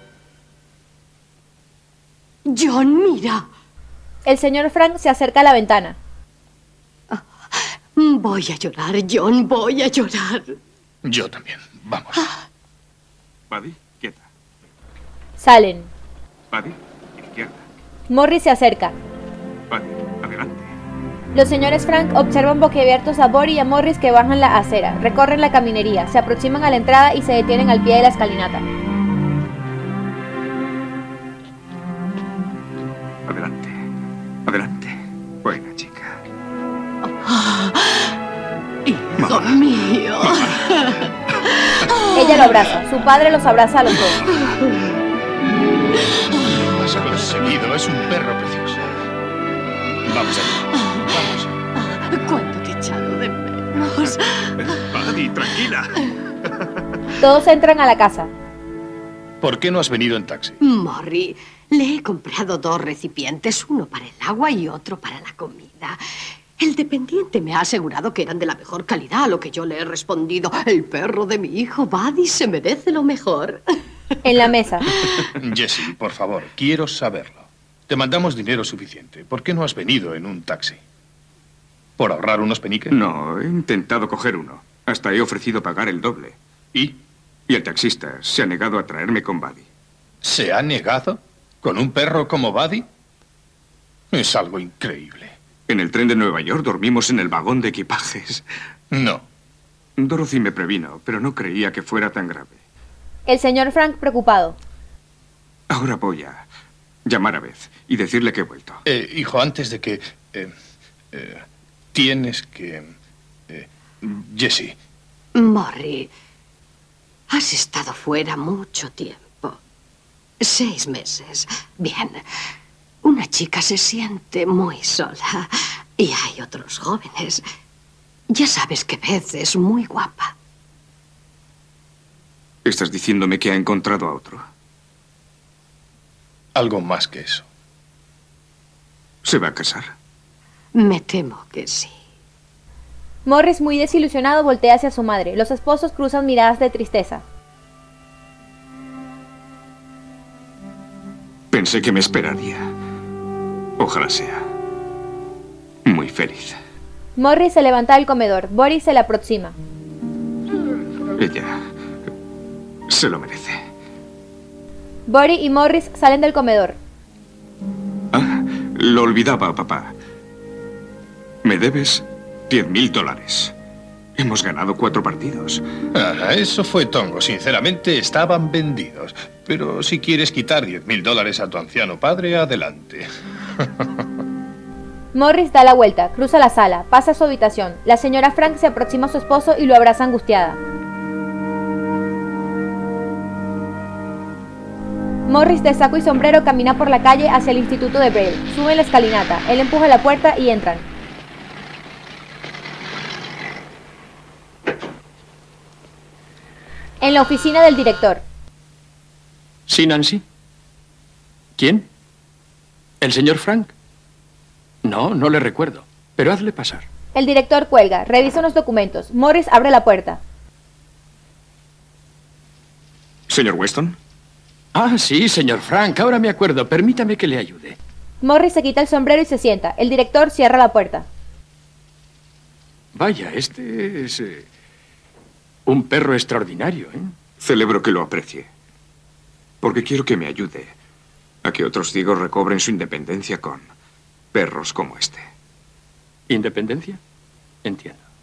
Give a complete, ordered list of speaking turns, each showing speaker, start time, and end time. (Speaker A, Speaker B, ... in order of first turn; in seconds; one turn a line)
Speaker A: 2.5-3.5
Speaker B: 4.2-6.0
Speaker A: 7.1-10.5
Speaker C: 11.0-12.2
Speaker A: 12.2-12.4
Speaker D: 13.5-14.3
Speaker B: 15.4-15.9
Speaker D: 16.5-17.6
Speaker B: 18.1-18.9
Speaker D: 19.7-20.7
Speaker B: 21.3-28.7
Speaker D: 33.3-33.8
Speaker D: 34.5-36.2
Speaker A: 37.2-38.1
Speaker D: 39.2-39.6
Speaker A: 39.2-41.0
Speaker D: 40.2-40.7
Speaker A: 41.8-42.4
Speaker B: 42.1-44.2
Speaker C: 46.5-48.9
Speaker C: 50.1-51.5
Speaker A: 51.8-54.7
Speaker D: 54.6-55.9
Speaker B: 57.2-58.3
Speaker C: 59.4-60.6
Speaker A: 60.6-66.0
Speaker A: 66.6-73.6
Speaker B: 74.2-74.9
Speaker A: 74.9-75.2
Speaker C: 75.4-80.8
Speaker C: 82.0-83.0
Speaker D: 82.9-86.4
Speaker D: 87.5-89.7
Speaker C: 90.2-92.9
Speaker C: 94.1-95.4
Speaker D: 95.7-98.4
Speaker C: 98.9-99.2
Speaker D: 100.0-102.6
Speaker B: 103.3-104.6
Speaker D: 105.7-106.5
Speaker D: 107.1-108.8
Speaker C: 108.8-110.5
Speaker C: 111.1-112.9
Speaker C: 113.5-114.8
Speaker A: 115.3-116.1
Speaker A: 117.3-119.6
Speaker A: 120.4-122.2
Speaker A: 123.0-127.4
Speaker A: 128.3-130.3
Speaker D: 132.7-134.4
Speaker C: 136.6-137.4
Speaker D: 139.2-139.9
Speaker A: 140.8-141.9
Speaker B: 143.3-147.2
Speaker D: 151.5-152.7
Speaker D: 153.8-154.5
Speaker D: 155.8-156.6
Speaker B: 157.2-159.6
Speaker D: 161.2-161.7
Speaker D: 162.9-163.6
Speaker B: 165.1-166.8
Speaker D: 168.1-169.9
Speaker D: 171.4-173.5
Speaker D: 174.2-175.6
Speaker C: 175.9-183.1
Speaker B: 185.1-190.6
Speaker B: 195.3-200.9
Speaker B: 207.0-208.2
Speaker E: 209.7-210.2
Speaker E: 211.6-211.9
Speaker E: 213.0-213.7
Speaker E: 214.8-216.9
Speaker B: 217.2-220.2
Speaker D: 223.3-224.0
Speaker E: 224.8-227.8
Speaker B: 228.2-231.1
Speaker E: 232.9-234.5
Speaker E: 235.7-237.1
Speaker D: 237.4-238.5
Speaker D: 239.6-240.8
Speaker D: 241.4-243.7
Speaker D: 244.3-245.3
Speaker E: 246.3-247.0
Speaker E: 247.7-248.0